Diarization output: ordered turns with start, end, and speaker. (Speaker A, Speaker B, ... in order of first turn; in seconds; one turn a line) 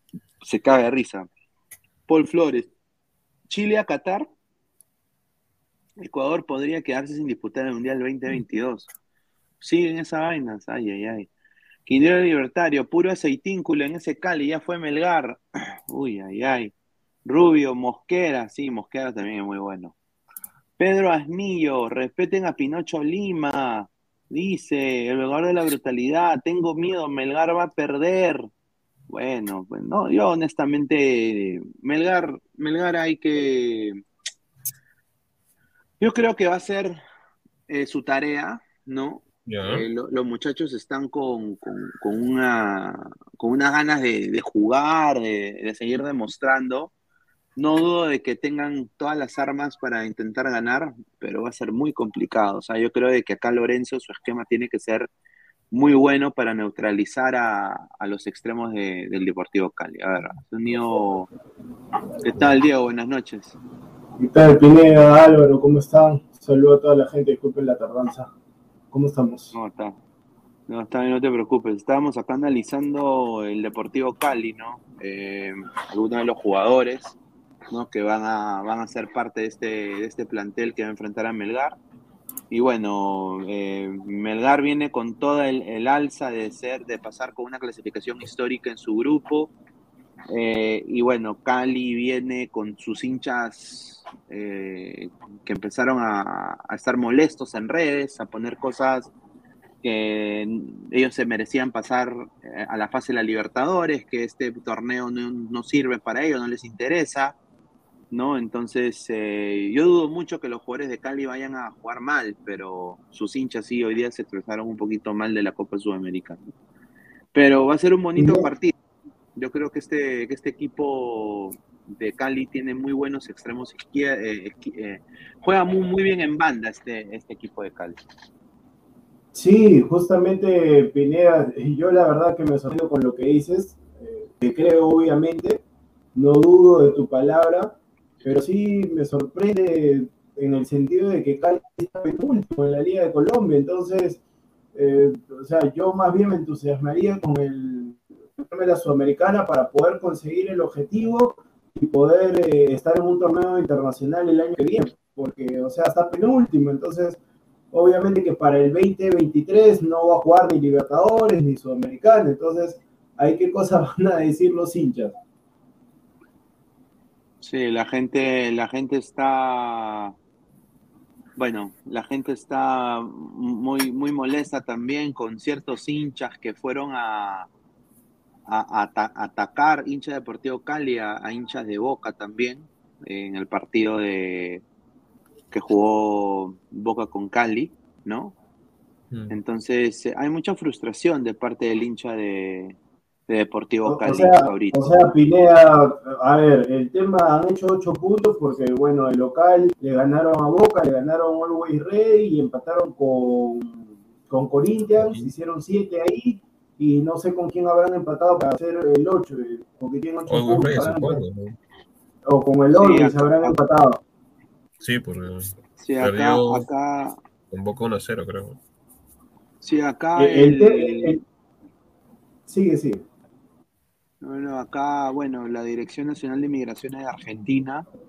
Speaker A: 0.4-1.3
Speaker A: 2.1-2.7
Speaker A: 3.5-4.3
Speaker A: 6.0-8.9
Speaker A: 9.6-11.3
Speaker A: 11.8-16.7
Speaker A: 17.2-19.9
Speaker A: 20.8-28.5
Speaker A: 29.1-34.0
Speaker A: 36.0-37.0
Speaker A: 37.7-46.9
Speaker B: 39.5-39.9
Speaker A: 47.6-55.1
Speaker A: 55.7-61.3
Speaker A: 62.2-63.5
Speaker C: 64.2-68.3
Speaker C: 68.9-69.5
Speaker A: 69.5-70.0
Speaker A: 70.7-77.2
Speaker A: 77.7-81.8
Speaker A: 82.5-89.5
Speaker A: 90.3-99.1
Speaker A: 99.8-107.3
Speaker A: 108.1-116.4
Speaker A: 117.3-118.7
Speaker C: 118.2-118.5
Speaker A: 119.3-128.0
Speaker C: 129.3-135.6
Speaker C: 136.1-144.2
Speaker C: 144.7-157.2
Speaker C: 157.7-165.2
Speaker A: 167.4-170.1
Speaker A: 171.4-177.5
Speaker A: 178.5-184.6
Speaker A: 185.5-188.3
Speaker B: 189.1-189.4
Speaker A: 189.3-192.8
Speaker A: 193.3-195.1
Speaker C: 193.9-211.2
Speaker B: 204.9-205.3
Speaker B: 210.3-211.6
Speaker C: 212.2-214.0
Speaker A: 212.7-213.6
Speaker B: 214.8-216.7
Speaker A: 215.8-217.2
Speaker B: 217.5-218.6
Speaker A: 219.6-221.2
Speaker C: 220.2-221.2
Speaker C: 222.5-223.0
Speaker A: 224.2-227.8